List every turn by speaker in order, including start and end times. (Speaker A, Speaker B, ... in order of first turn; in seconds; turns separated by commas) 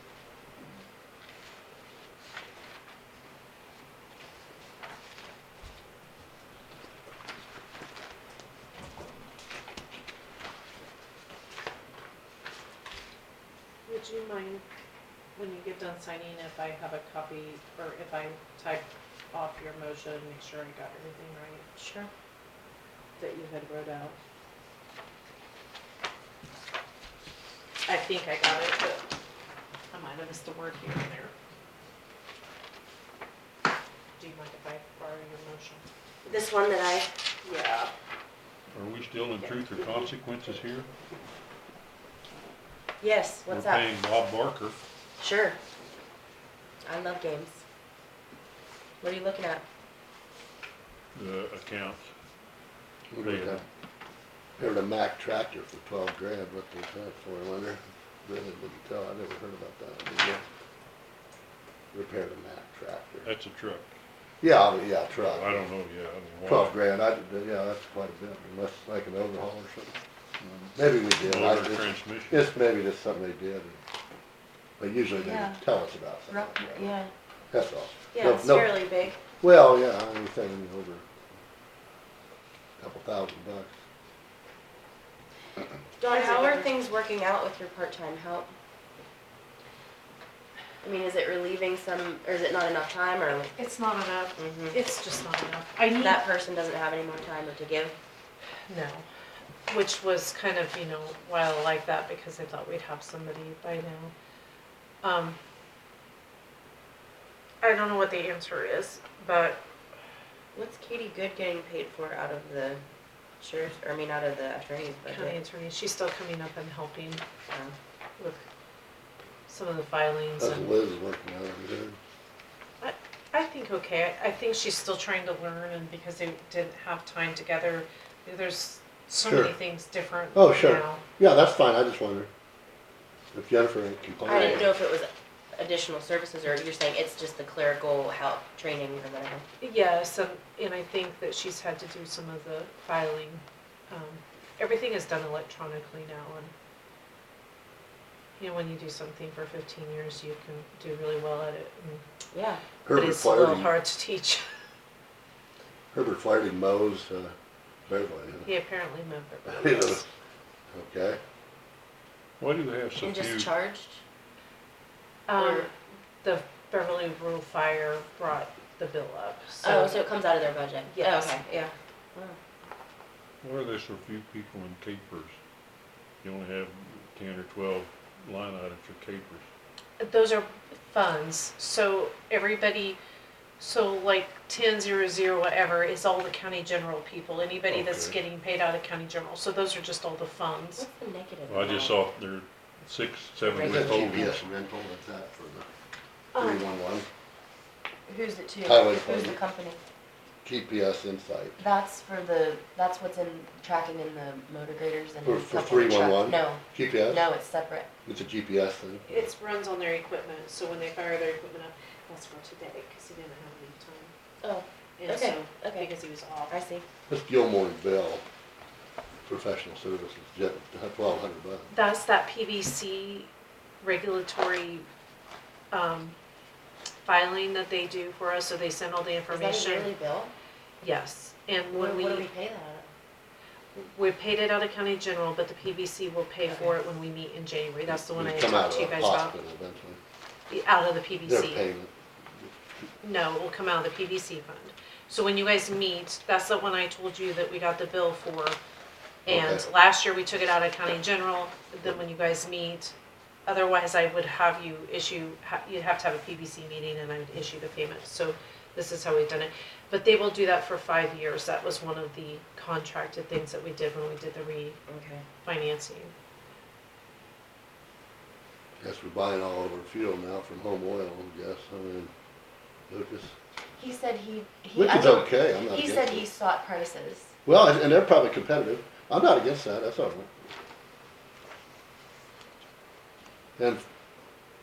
Speaker A: 13.8-14.6, Speaker A: 15.3-21.6, Speaker B: 21.8-22.1, Speaker A: 23.2-24.1, Speaker A: 27.9-29.0, Speaker A: 29.9-31.3, Speaker A: 34.2-35.9, Speaker B: 36.2-37.1, Speaker A: 37.4-37.9, Speaker C: 38.7-40.9, Speaker B: 43.0-43.9, Speaker C: 43.5-44.8, Speaker B: 45.2-45.6, Speaker B: 46.8-47.6, Speaker B: 49.0-49.6, Speaker C: 51.1-52.1, Speaker D: 53.1-53.6, Speaker C: 53.2-53.6, Speaker D: 54.6-60.4, Speaker D: 61.9-63.3, Speaker C: 63.2-63.9, Speaker D: 64.4-65.5, Speaker C: 65.1-66.8, Speaker D: 66.5-70.0, Speaker C: 70.4-72.4, Speaker D: 70.8-73.8, Speaker D: 74.8-76.9, Speaker B: 75.2-75.6, Speaker B: 76.3-77.1, Speaker D: 77.5-81.0, Speaker B: 78.1-79.2, Speaker D: 82.8-83.7, Speaker B: 86.0-88.5, Speaker A: 86.1-86.7, Speaker B: 90.8-93.5, Speaker A: 93.5-96.2, Speaker B: 94.4-94.8, Speaker B: 96.0-98.0, Speaker A: 98.7-99.0, Speaker A: 99.7-104.1, Speaker A: 105.0-105.4, Speaker A: 107.6-109.6, Speaker B: 110.5-112.8, Speaker B: 113.4-115.4, Speaker A: 115.1-117.2, Speaker B: 117.5-117.7, Speaker A: 118.2-118.4, Speaker A: 119.5-120.7, Speaker D: 120.4-122.0, Speaker A: 122.8-131.0, Speaker D: 129.2-129.5, Speaker D: 130.3-132.3, Speaker D: 133.3-134.7, Speaker B: 134.2-139.4, Speaker A: 134.2-134.7, Speaker A: 139.6-146.5, Speaker A: 148.4-152.0, Speaker B: 152.3-152.6, Speaker D: 152.8-153.7, Speaker A: 152.9-154.4, Speaker D: 155.9-157.3, Speaker D: 157.9-158.5, Speaker A: 158.4-160.1, Speaker D: 159.5-160.0, Speaker D: 160.7-161.2, Speaker C: 162.4-163.5, Speaker B: 163.0-164.0, Speaker A: 165.3-165.7, Speaker B: 165.3-165.7, Speaker A: 166.2-170.1, Speaker B: 169.6-172.4, Speaker A: 170.9-171.3, Speaker C: 173.4-175.4, Speaker C: 176.2-179.4, Speaker A: 180.0-183.0, Speaker A: 183.6-190.8, Speaker C: 187.7-188.2, Speaker B: 190.8-191.9, Speaker C: 191.5-194.4, Speaker B: 193.5-194.3, Speaker D: 193.6-195.7, Speaker A: 196.3-196.7, Speaker D: 196.3-197.1, Speaker B: 198.1-199.8, Speaker D: 198.6-199.4, Speaker D: 200.4-201.6, Speaker B: 201.6-207.9, Speaker D: 205.2-207.2, Speaker D: 208.1-209.2, Speaker A: 209.1-214.1, Speaker B: 214.4-215.9, Speaker A: 215.0-216.6, Speaker B: 216.5-216.8, Speaker D: 217.1-218.2, Speaker D: 219.2-221.7, Speaker A: 221.7-223.3, Speaker A: 223.8-224.8, Speaker A: 225.7-226.2, Speaker A: 227.0-229.9, Speaker B: 229.3-230.3, Speaker A: 230.8-232.3, Speaker B: 231.7-232.9, Speaker A: 233.7-239.3, Speaker B: 236.4-236.7, Speaker D: 238.2-240.0, Speaker A: 240.5-241.6, Speaker D: 241.2-241.9, Speaker A: 243.0-248.6, Speaker A: 249.2-252.9, Speaker D: 249.3-249.7, Speaker A: 253.4-264.8, Speaker B: 264.9-265.2, Speaker A: 265.4-266.1, Speaker D: 268.8-272.1, Speaker D: 272.9-273.3, Speaker B: 273.8-277.3, Speaker D: 274.7-276.3, Speaker D: 277.4-280.3, Speaker D: 283.6-283.8